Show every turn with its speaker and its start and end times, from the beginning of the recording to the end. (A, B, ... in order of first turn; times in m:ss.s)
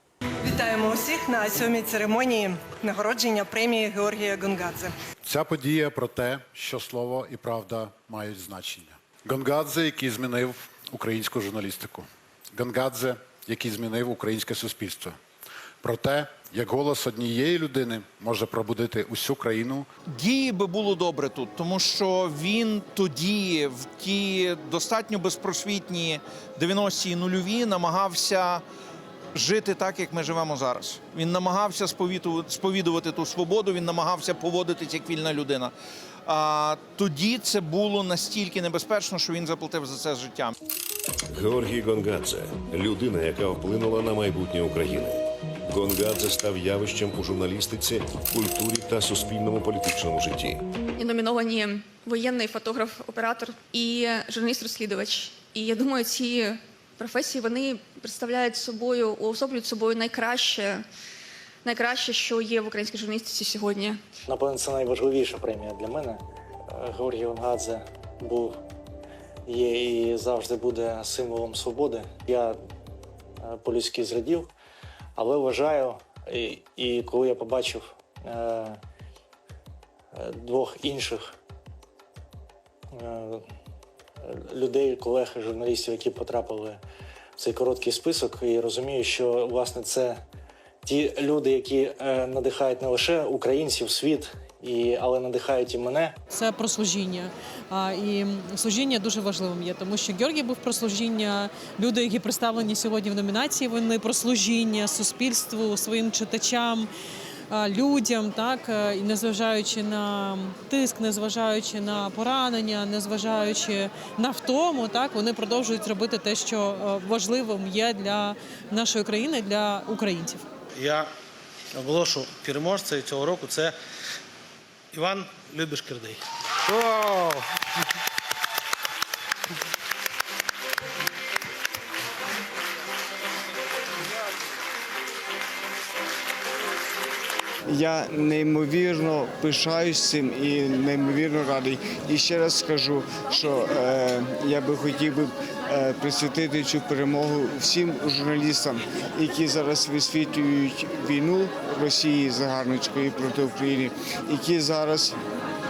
0:00.5-0:04.9 A
0:05.2-0:15.2 B
0:15.8-0:19.9 B
0:20.1-0:28.6 C
0:29.4-0:35.7 C
0:36.3-0:40.5 C
0:41.3-0:50.6 D
0:51.0-1:00.8 E
1:01.6-1:04.0 E
1:04.3-1:08.6 F
1:09.5-1:12.6 F
1:13.4-1:14.5 F
1:15.2-1:18.8 F
1:20.1-1:21.3 F
1:22.9-1:23.4 F
1:24.2-1:26.8 F
1:27.4-1:30.2 F
1:30.8-1:36.2 F
1:36.3-1:46.9 G
1:47.5-2:00.5 G
2:00.8-2:01.1 H
2:01.7-2:03.8 H
2:04.9-2:07.4 H
2:17.7-2:35.2 I